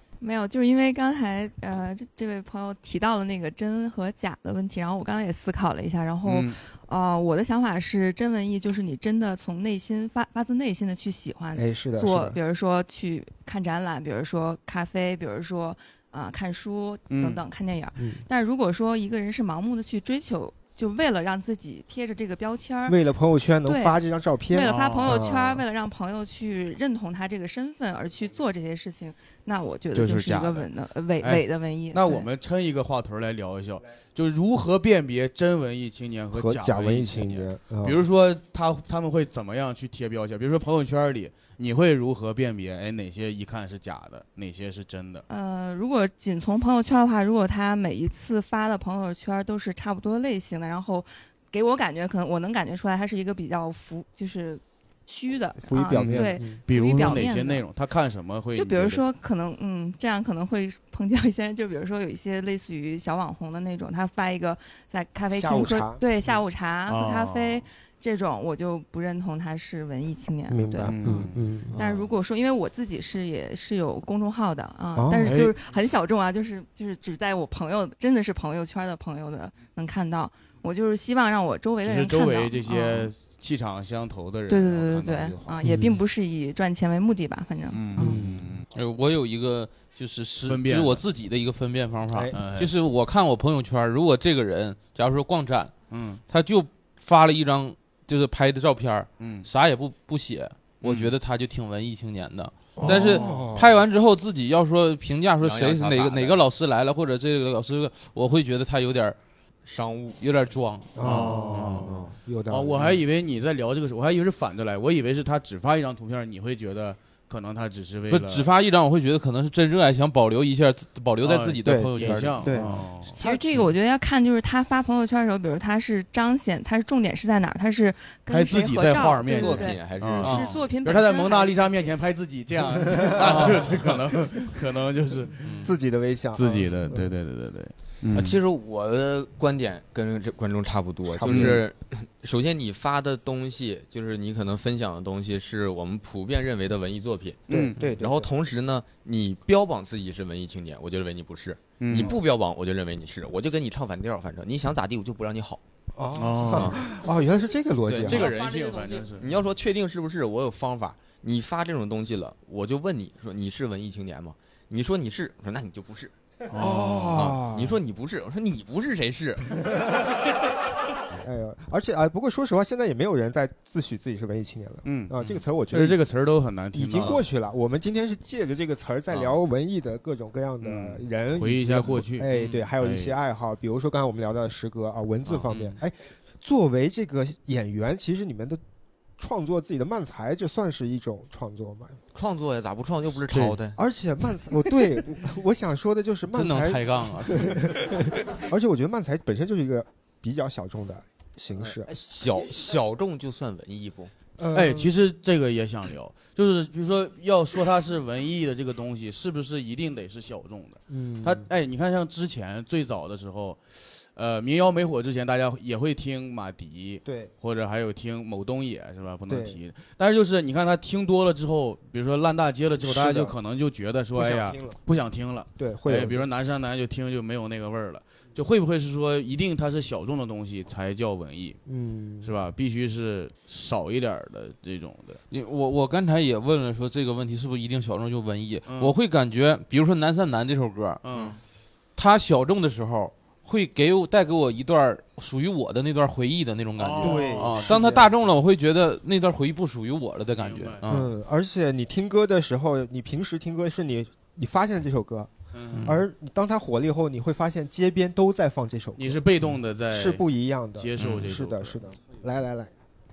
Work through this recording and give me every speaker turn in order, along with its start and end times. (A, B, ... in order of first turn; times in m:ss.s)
0:00.2-0:23.0 A
0:06.2-0:06.6 B
0:11.6-0:12.4 C
0:17.1-0:17.4 B
0:18.0-0:18.2 C
0:22.9-0:25.6 C
0:23.6-0:32.3 A
0:24.6-0:25.2 B
0:29.9-0:30.7 B
0:31.2-0:45.2 B
0:36.3-0:38.0 C
0:45.3-0:57.6 A
0:55.6-0:56.6 C
0:55.9-0:59.0 B
0:58.5-1:11.2 A
1:05.3-1:06.0 C
1:06.9-1:07.6 B
1:10.5-1:11.8 C
1:10.9-1:11.5 B
1:11.8-1:12.1 D
1:11.8-1:23.1 A
1:15.0-1:15.4 C
1:15.2-1:15.5 B
1:21.8-1:25.9 B
1:24.5-1:28.2 A
1:27.7-1:28.7 B
1:28.0-1:28.4 C
1:28.7-1:49.2 E
1:30.4-1:31.0 B
1:32.3-1:32.7 B
1:35.9-1:36.2 B
1:39.2-1:39.5 B
1:40.8-1:41.1 B
1:42.8-1:43.8 C
1:42.8-1:43.5 B
1:45.4-1:46.4 D
1:49.6-1:50.2 D
1:50.2-1:51.2 E
1:51.0-1:53.0 C
1:51.0-1:52.0 B
1:51.8-1:52.1 D
1:52.5-1:58.5 B
1:58.1-2:02.8 E
2:01.2-2:03.2 B
2:01.6-2:03.3 C
2:03.1-2:11.9 A
2:08.3-2:15.5 B
2:09.3-2:10.6 D
2:13.0-2:13.3 C
2:13.2-2:13.6 E
2:15.4-2:15.7 E
2:15.6-2:17.1 C
2:16.4-2:18.4 B
2:18.1-2:35.6 D
2:21.1-2:21.6 C
2:21.2-2:21.6 B
2:27.5-2:27.8 B
2:27.5-2:28.3 C
2:31.8-2:32.2 B
2:36.0-2:38.3 C
2:36.2-2:36.8 B
2:36.5-2:36.8 D
2:37.9-2:46.1 D
2:38.0-2:39.3 B
2:46.5-2:47.2 B
2:46.6-2:47.8 C
2:47.1-2:49.6 D
2:51.2-2:56.0 C
2:54.9-2:57.2 B
2:56.7-3:08.6 C
3:00.6-3:03.1 B
3:05.3-3:05.8 B
3:09.2-3:12.0 C
3:12.1-3:13.8 D
3:13.3-3:13.6 B
3:13.8-3:21.9 C
3:16.3-3:17.7 E
3:21.8-3:24.1 D
3:24.4-3:24.9 C
3:24.5-3:51.6 B
3:30.9-3:31.5 C
3:37.0-3:37.3 C
3:39.3-3:39.6 C
3:42.8-3:43.4 C
3:44.1-3:44.8 C
3:45.6-3:46.3 C
3:51.7-3:52.3 C
3:52.2-3:55.2 B
3:55.3-4:01.0 E
3:58.7-3:59.0 B
4:01.0-4:01.4 B
4:02.0-4:10.9 E
4:06.8-4:07.8 B
4:07.0-4:08.1 C
4:10.4-4:11.1 B
4:10.9-4:15.3 C
4:15.5-4:16.0 B
4:15.8-4:19.2 C
4:19.0-4:20.2 B
4:19.9-4:22.7 C
4:20.8-4:21.8 B